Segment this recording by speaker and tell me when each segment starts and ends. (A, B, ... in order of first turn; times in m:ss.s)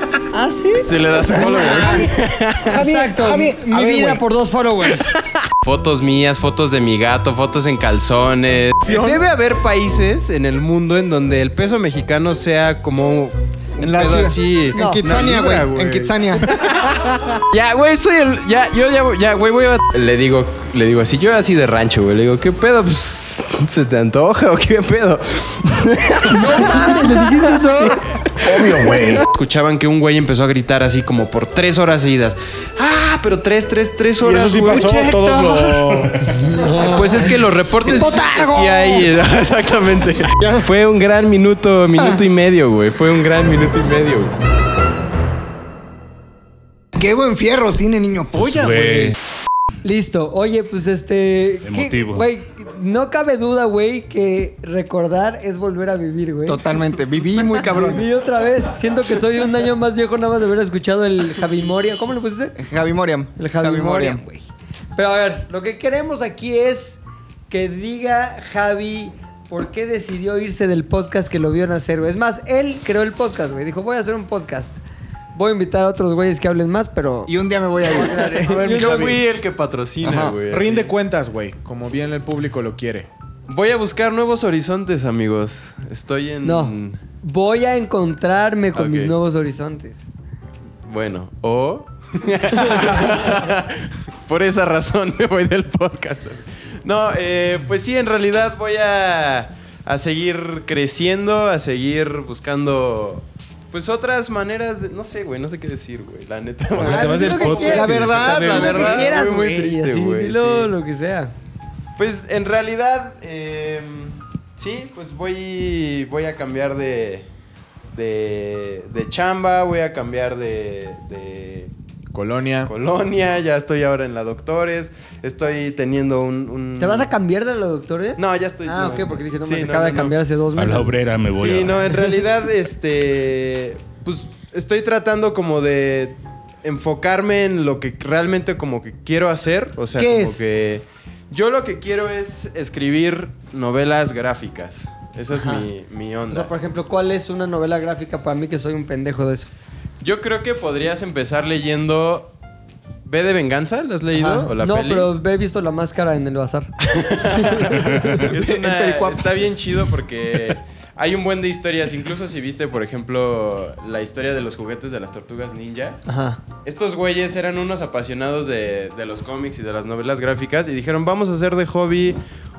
0:00.3-0:02.1 A
0:00.8-0:02.8 B
0:01.8-0:02.0 C
0:02.6-0:04.2 C
0:02.7-0:05.1 A
0:05.6-0:16.5 B
0:08.8-0:09.2 C
0:13.8-0:17.1 D
0:14.7-0:15.0 A
0:17.5-0:36.1 B
0:26.3-0:28.0 A
0:28.4-0:29.2 C
0:34.2-0:36.3 C
0:36.4-0:39.0 A
0:36.7-0:44.3 B
0:40.4-0:40.7 D
0:46.9-0:49.1 D
0:48.4-0:49.2 E
0:49.8-0:56.6 A
0:51.6-0:52.2 E
0:56.4-0:58.0 D
0:57.6-1:02.6 A
1:02.6-1:04.2 D
1:03.4-1:14.8 A
1:15.3-1:19.2 A
1:17.2-1:18.7 D
1:18.4-1:19.2 C
1:18.5-1:20.9 B
1:20.0-1:20.4 D
1:20.4-1:23.1 C
1:23.5-1:27.0 B
1:26.4-1:30.1 A
1:28.8-1:29.1 B
1:30.8-1:50.7 B
1:46.8-1:48.7 E
1:46.8-1:51.3 A
1:47.6-1:49.2 D
1:52.0-1:57.3 B
1:57.9-2:01.7 B
2:02.1-2:02.7 C
2:02.6-2:07.1 B
2:06.8-2:11.0 A
2:08.2-2:10.1 B
2:10.5-2:12.0 E
2:11.3-2:26.5 B
2:20.0-2:20.4 A
2:25.3-2:25.6 A
2:26.3-2:29.5 A
2:30.0-2:32.3 B
2:33.0-2:35.1 B
2:34.1-2:36.7 A
2:36.8-2:46.0 B
2:37.3-2:37.6 A
2:38.2-2:39.3 D
2:46.0-2:46.4 A
2:46.6-2:52.2 B